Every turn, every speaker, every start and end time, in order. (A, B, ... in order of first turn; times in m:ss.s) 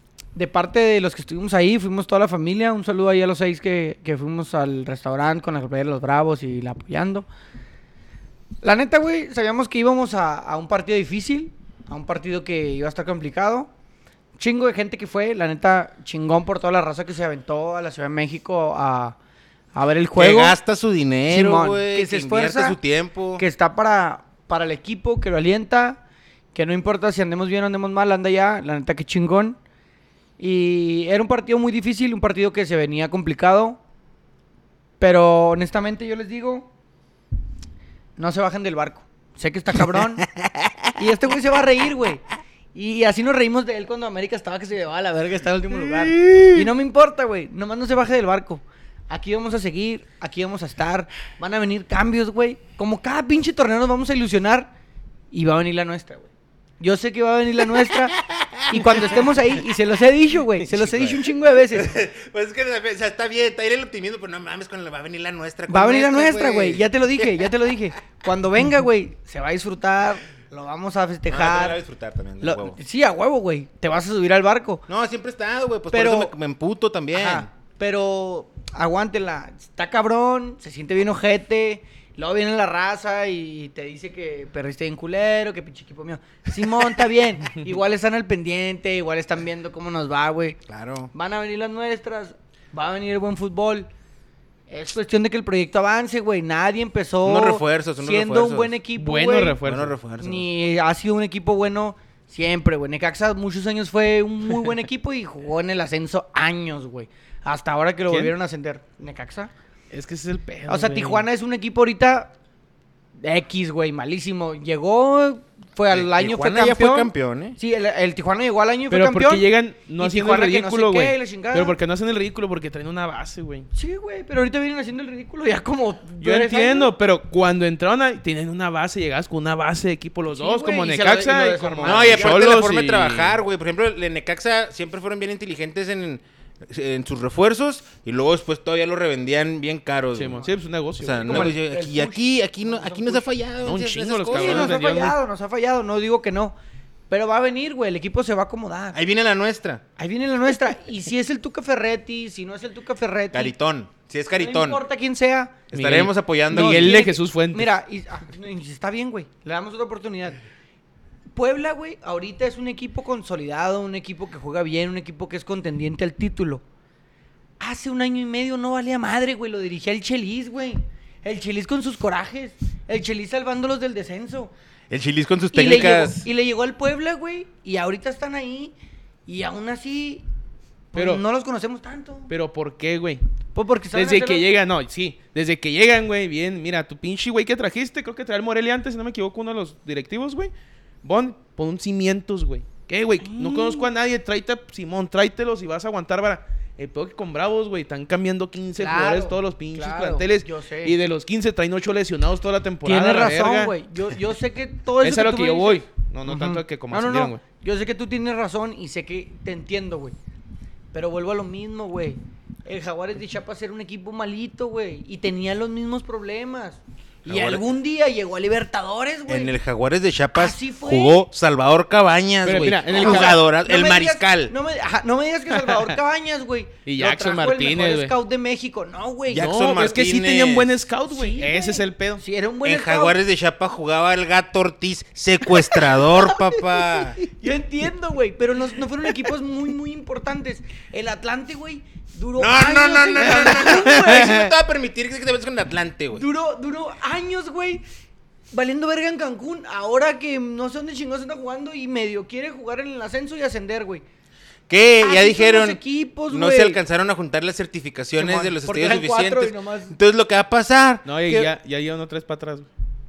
0:00.4-0:07.3 A
0:08.6-0:13.7 A
0:14.4-0:19.2 A
0:19.8-0:20.6 A
0:20.2-0:23.4 B
0:21.3-0:22.8 A
0:23.4-0:26.0 A
0:26.5-0:29.6 A
0:30.4-0:33.8 A
0:35.0-0:36.7 A
0:38.2-0:40.3 A
0:41.0-0:42.2 A
0:42.7-0:54.7 A
0:46.2-0:46.5 B
0:55.3-0:56.3 A
0:56.8-1:02.0 A
0:58.3-0:59.0 B
1:00.7-1:07.5 B
1:05.7-1:11.8 A
1:11.3-1:12.8 B
1:12.4-1:14.8 A
1:14.9-1:17.5 B
1:15.9-1:16.3 A
1:17.1-1:30.6 A
1:30.7-1:31.1 B
1:31.1-1:33.9 A
1:34.7-1:39.6 A
1:37.2-1:38.8 B
1:39.0-1:39.9 C
1:39.6-1:40.5 B
1:40.2-1:49.5 A
1:48.1-1:48.3 C
1:49.9-1:51.3 C
1:50.7-1:52.3 A
1:53.2-1:59.4 A
1:55.9-1:57.6 B
1:58.9-2:03.7 C
2:00.0-2:01.8 A
2:03.7-2:06.9 A
2:06.2-2:13.4 C
2:10.3-2:12.4 A
2:11.8-2:20.5 B
2:20.2-2:21.5 C
2:21.0-2:24.8 B
2:21.2-2:23.3 A
2:23.6-2:25.2 C
2:24.3-2:26.6 A
2:27.1-2:29.0 A
2:28.9-2:29.8 B
2:30.0-2:33.5 A
2:33.3-2:34.8 B
2:34.3-2:35.6 A
2:35.7-2:37.0 B
2:35.7-2:37.7 C
2:36.5-2:40.4 A
2:41.3-2:46.6 A
2:47.6-2:54.5 A
2:54.9-2:56.3 B
2:55.5-2:58.7 A
2:59.3-3:00.3 A
3:00.9-3:02.3 A
3:01.0-3:01.2 C
3:02.3-3:03.2 C
3:03.6-3:04.5 A
3:03.9-3:10.5 C
3:11.0-3:23.7 C
3:13.2-3:13.9 A
3:18.8-3:21.0 A
3:22.8-3:30.2 A
3:25.0-3:27.4 C
3:30.9-3:39.6 A
3:37.3-3:37.7 B
3:39.3-3:44.5 B
3:40.3-3:41.2 A
3:42.4-3:43.4 C
3:42.9-3:49.6 A
3:45.5-3:45.9 C
3:46.9-3:48.2 C
3:49.3-3:50.7 B
3:49.3-3:52.2 C
3:51.1-3:53.2 A
3:52.6-3:57.2 B
3:56.2-4:04.5 A
4:02.4-4:06.2 B
4:03.2-4:04.5 C
4:06.1-4:07.8 A
4:08.5-4:14.0 A
4:14.7-4:21.5 B
4:15.0-4:16.8 A
4:18.2-4:19.9 A
4:21.0-4:22.7 C